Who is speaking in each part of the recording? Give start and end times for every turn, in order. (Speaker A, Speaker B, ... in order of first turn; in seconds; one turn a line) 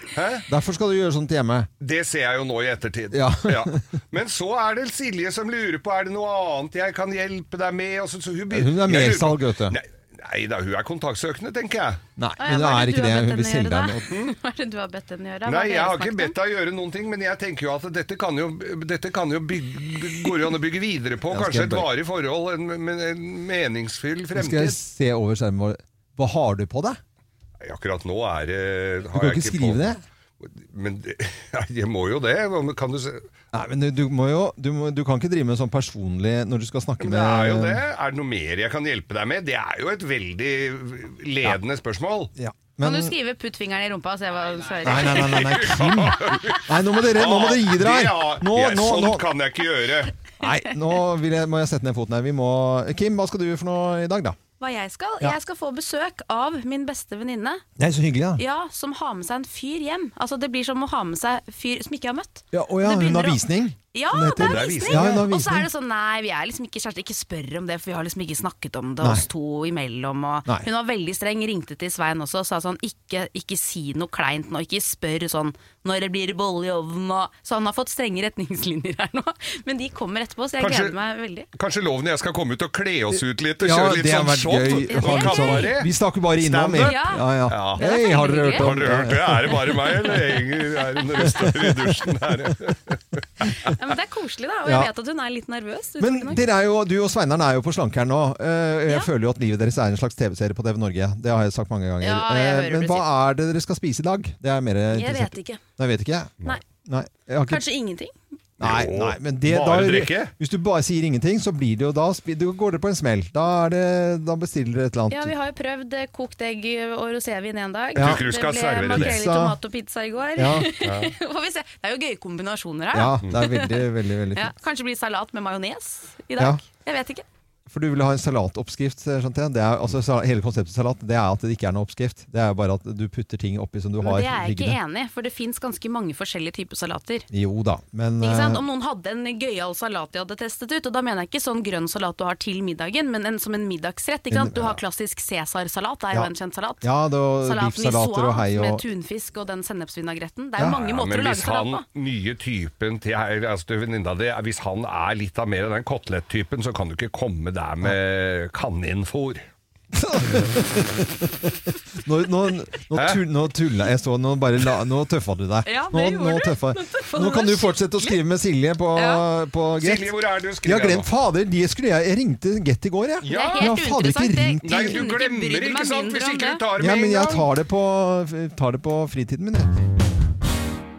Speaker A: 0.1-0.5
Speaker B: 0.5-1.7
Speaker A: 1.8-12.0
Speaker B: 3.1-3.8
Speaker B: 8.5-9.8
Speaker B: 12.2-14.1
Speaker C: 12.4-16.3
Speaker A: 15.4-24.8
Speaker B: 21.3-21.9
Speaker B: 24.3-27.0
Speaker A: 27.6-33.3
Speaker B: 29.1-30.0
Speaker B: 33.5-37.8
Speaker A: 37.0-42.3
Speaker B: 42.3-43.1
Speaker C: 42.8-45.6
Speaker A: 44.8-50.1
Speaker B: 44.8-49.3
Speaker B: 50.4-54.4
Speaker C: 54.6-57.6
Speaker B: 57.8-58.4
Speaker C: 58.4-63.4
Speaker B: 62.5-65.7
Speaker C: 63.9-81.5
Speaker A: 64.3-65.2
Speaker A: 80.6-81.0
Speaker A: 81.5-93.7
Speaker B: 83.6-89.9
Speaker C: 84.9-85.8
Speaker C: 86.8-88.7
Speaker B: 91.4-91.7
Speaker C: 93.7-96.4
Speaker B: 96.0-107.6
Speaker C: 102.0-103.1
Speaker C: 104.9-105.6
Speaker C: 107.5-108.1
Speaker A: 108.6-110.3
Speaker B: 108.6-115.3
Speaker C: 115.1-127.2
Speaker A: 117.9-119.2
Speaker B: 118.0-118.2
Speaker B: 118.9-119.5
Speaker B: 120.4-120.7
Speaker A: 120.8-121.1
Speaker B: 122.9-124.5
Speaker B: 127.7-134.8
Speaker C: 134.0-137.3
Speaker B: 137.3-138.6
Speaker C: 138.2-146.9
Speaker B: 144.3-144.8
Speaker B: 146.8-148.8
Speaker C: 147.4-151.8
Speaker A: 150.6-159.4
Speaker B: 159.9-175.0
Speaker A: 162.9-163.2
Speaker C: 165.7-168.2
Speaker C: 168.9-169.2
Speaker A: 169.8-171.1
Speaker A: 173.2-173.7
Speaker C: 173.2-176.6
Speaker A: 174.6-177.5
Speaker B: 176.8-179.7